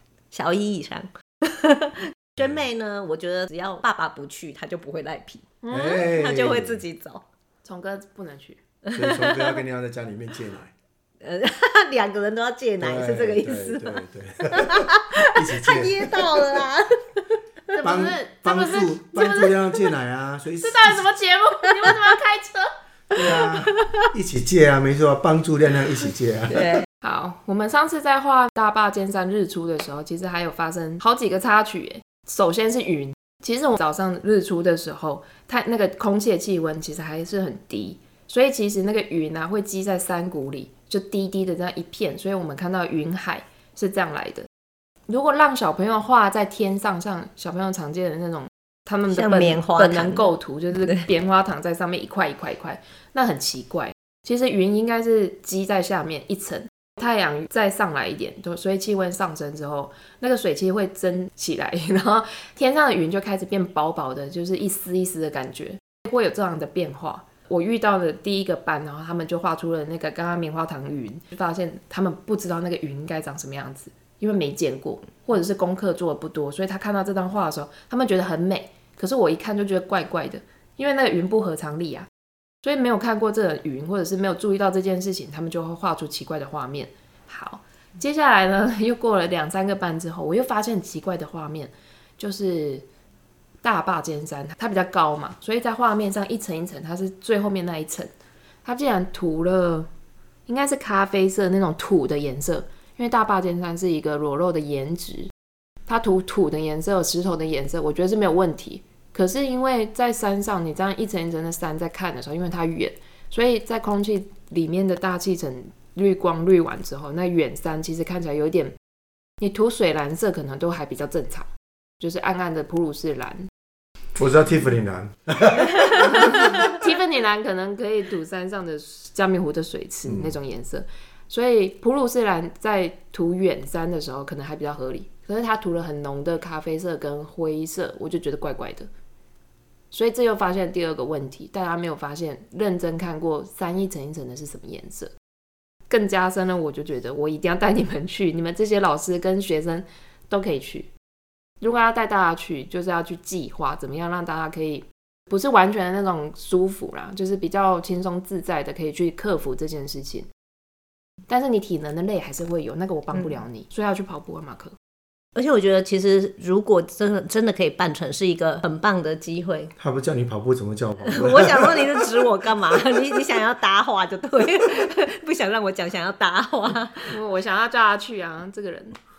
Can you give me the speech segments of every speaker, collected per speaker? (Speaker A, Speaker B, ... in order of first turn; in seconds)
Speaker A: 0.3-7.2, 8.9-9.6, 11.2-14.0, 14.6-17.2, 23.2-24.0, 26.5-26.9, 49.1-50.3, 163.1-163.4, 165.4-169.7, 171.1-177.2
Speaker B: 2.4-2.7, 5.7-6.8, 8.9-10.7, 12.8-16.6, 17.8-21.1, 23.1-26.7, 124.2-126.3, 130.1-130.3, 169.8-172.2
Speaker C: 5.6-6.1, 7.6-8.6, 17.7-19.9, 20.6-22.7, 27.0-44.5, 45.1-82.1, 82.6-92.9, 93.6-98.1, 98.6-99.9, 100.5-105.3, 105.9-118.8, 119.4-121.5, 122.0-123.5, 125.9-138.9, 139.9-145.1, 145.9-150.9, 151.6-160.3, 161.3-164.7, 177.1-179.0